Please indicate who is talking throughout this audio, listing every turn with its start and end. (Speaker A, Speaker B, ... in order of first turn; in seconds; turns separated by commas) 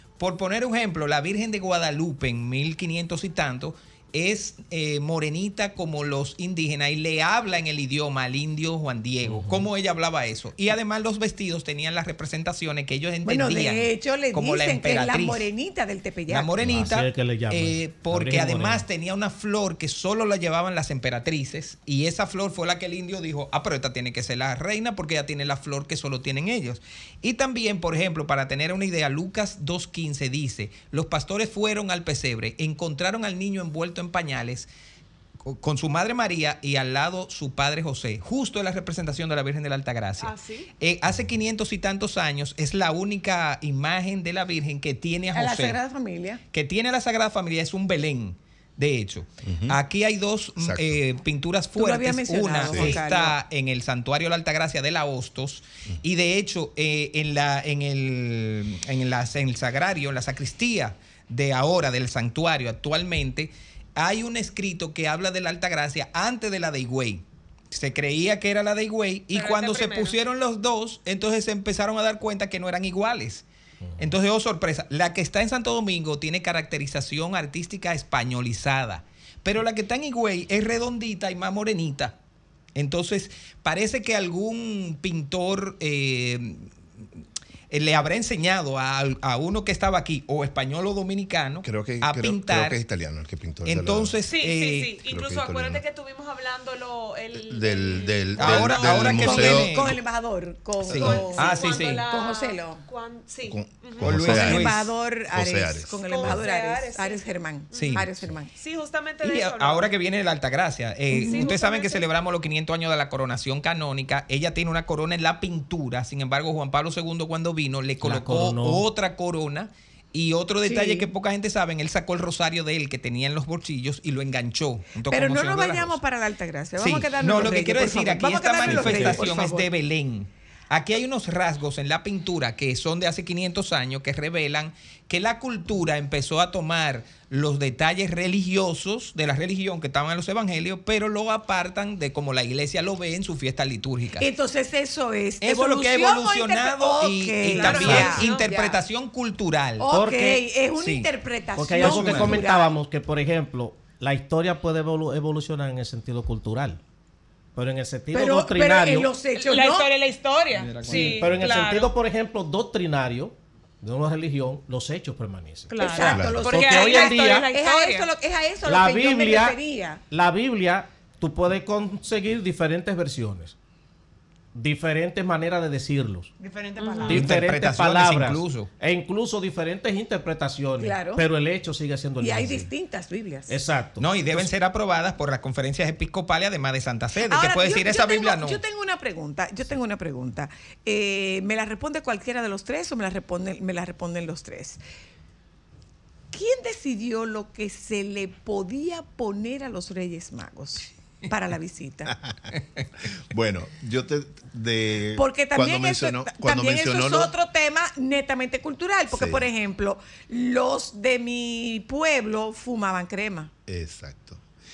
Speaker A: 0.2-15.5, Speaker B: 9.2-9.7, Speaker C: 13.2-16.6, Speaker A: 16.3-34.7, Speaker B: 16.6-18.8, Speaker A: 35.4-45.8, Speaker D: 40.2-40.7, Speaker C: 45.3-46.4, Speaker A: 46.5-73.5, Speaker E: 49.4-49.8, Speaker E: 50.6-51.0, Speaker C: 51.7-53.4, Speaker E: 52.7-53.0, Speaker D: 69.3-70.2, Speaker B: 73.8-74.1, Speaker A: 74.0-82.2, Speaker A: 82.7-86.7, Speaker A: 87.7-92.8, Speaker E: 91.6-94.2, Speaker A: 93.6-94.9, Speaker D: 94.3-99.5, Speaker E: 95.1-95.8, Speaker E: 97.3-99.9, Speaker A: 98.4-100.0, Speaker C: 99.0-102.8, Speaker A: 100.9-102.0, Speaker D: 100.9-104.4, Speaker E: 103.5-106.4, Speaker A: 104.0-104.9, Speaker C: 104.2-108.5, Speaker D: 106.1-109.9, Speaker A: 107.7-108.0, Speaker A: 109.2-126.0, Speaker C: 111.1-111.5, Speaker D: 111.2-112.0, Speaker B: 118.0-118.8, Speaker C: 120.6-121.1, Speaker C: 125.1-129.7, Speaker A: 126.8-144.3, Speaker E: 128.6-129.3, Speaker C: 144.2-148.8, Speaker A: 145.4-149.9, Speaker D: 147.5-148.5, Speaker B: 147.8-148.1, Speaker C: 149.8-152.7, Speaker B: 149.9-150.4, Speaker A: 150.8-151.1, Speaker B: 151.6-156.8, Speaker A: 151.8-152.4, Speaker B: 157.6-159.1, Speaker C: 158.1-159.9, Speaker F: 159.5-161.9, Speaker D: 159.5-161.7, Speaker A: 160.6-161.4, Speaker B: 160.8-167.5, Speaker D: 165.7-168.1, Speaker C: 165.8-170.0, Speaker E: 166.1-166.4, Speaker B: 168.6-169.6, Speaker B: 170.1-173.6, Speaker B: 174.5-176.3, Speaker F: 176.4-177.3, Speaker D: 176.8-177.3, Speaker B: 177.1-182.7, Speaker A: 177.1-178.7, Speaker C: 180.8-181.2, Speaker C: 182.2-183.6, Speaker B: 183.5-184.5, Speaker A: 184.0-188.6, Speaker C: 187.2-194.8, Speaker C: 196.3-202.2, Speaker E: 202.3-202.5, Speaker E: 203.3-207.3, Speaker C: 205.2-213.5, Speaker E: 209.1-209.4, Speaker E: 213.7-214.4